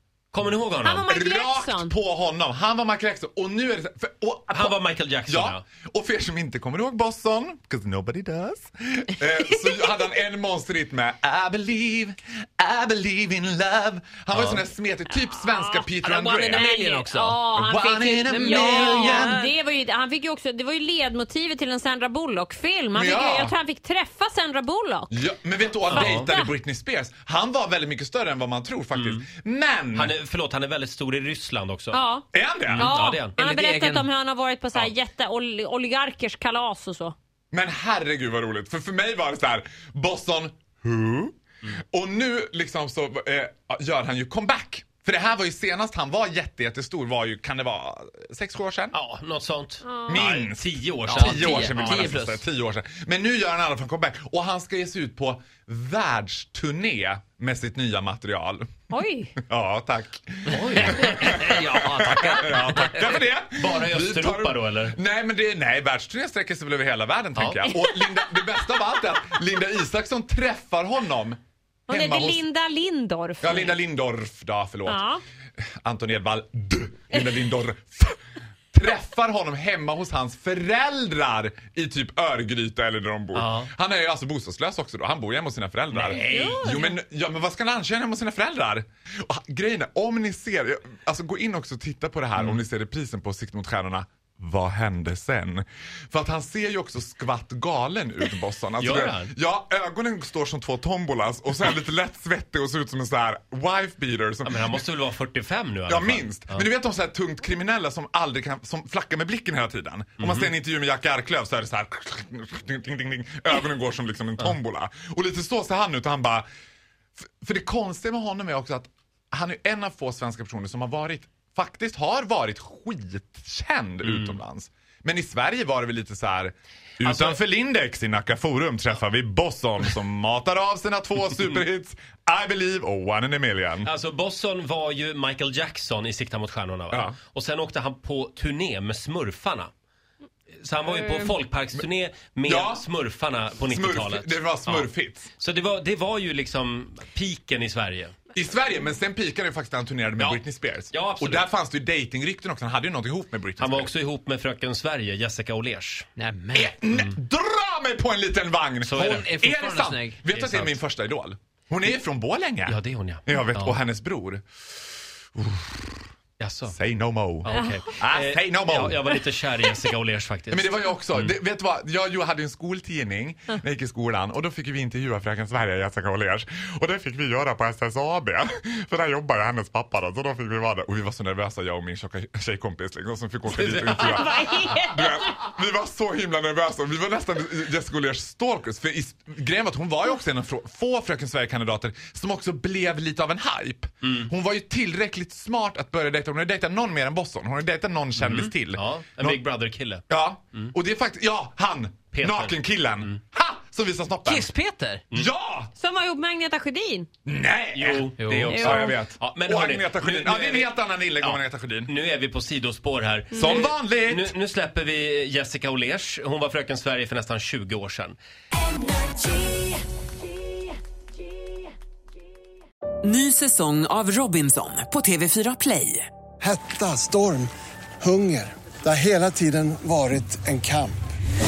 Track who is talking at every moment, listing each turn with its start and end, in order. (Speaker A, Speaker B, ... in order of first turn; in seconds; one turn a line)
Speaker A: 0.3-1.0
Speaker B: 0.8-1.9
Speaker C: 1.1-16.7
Speaker A: 4.5-5.6
Speaker A: 14.3-14.6
Speaker B: 15.3-15.9
Speaker D: 16.0-19.5
Speaker B: 16.5-17.7
Speaker C: 17.5-19.4
Speaker B: 18.3-25.1
Speaker C: 22.9-23.5
Speaker C: 25.1-30.1
Speaker A: 25.9-26.3
Speaker B: 25.9-26.5
Speaker A: 28.9-29.3
Speaker A: 29.9-32.0
Speaker B: 31.9-37.1
Speaker C: 32.3-32.9
Speaker A: 32.6-34.0
Speaker C: 37.5-41.3
Speaker C: 41.9-49.0
Speaker A: 48.9-52.2
Speaker B: 49.8-50.2
Speaker C: 50.1-58.8
Speaker D: 51.1-52.4
Speaker B: 51.5-51.8
Speaker B: 58.9-59.4
Speaker C: 59.4-72.5
Speaker A: 60.5-65.0
Speaker D: 61.0-62.6
Speaker A: 67.3-67.7
Speaker B: 71.9-73.8
Speaker C: 73.4-75.0
Speaker B: 74.9-75.2
Speaker C: 75.8-78.2
Speaker C: 78.7-104.7
Speaker A: 83.3-83.7
Speaker A: 85.9-86.6
Speaker B: 86.2-86.9
Speaker A: 98.8-99.3
Speaker A: 104.4-106.7
Speaker C: 105.9-116.4
Speaker A: 110.2-110.5
Speaker C: 117.2-133.9
Speaker A: 124.0-124.4
Speaker A: 127.0-127.4
Speaker A: 133.8-139.7
Speaker C: 136.9-137.2
Speaker A: 140.6-148.2
Speaker C: 142.4-142.8
Speaker C: 143.7-145.3
Speaker C: 148.3-153.9
Speaker A: 150.2-151.4
Speaker A: 153.6-156.1
Speaker D: 156.2-156.7
Speaker C: 156.5-164.4
Speaker A: 158.8-159.3
Speaker D: 159.1-160.7
Speaker A: 162.7-163.8
Speaker C: 165.3-166.0
Speaker A: 166.4-166.8
Speaker C: 166.7-169.2
Speaker A: 167.4-171.3
Speaker C: 170.5-199.4
Speaker A: 183.5-184.6
Speaker B: 184.0-185.1
Speaker A: 194.0-194.3
Speaker A: 198.2-200.7
Speaker C: 200.1-204.5
Speaker A: 202.1-203.2
Speaker D: 204.2-205.0
Speaker C: 205.1-205.7
Speaker B: 205.8-207.1
Speaker C: 207.2-211.9
Speaker A: 207.7-218.2
Speaker D: 208.2-208.5
Speaker B: 208.4-209.0
Speaker C: 213.3-214.3
Speaker E: 223.0-226.1
Speaker F: 226.4-227.5
Speaker F: 228.0-231.0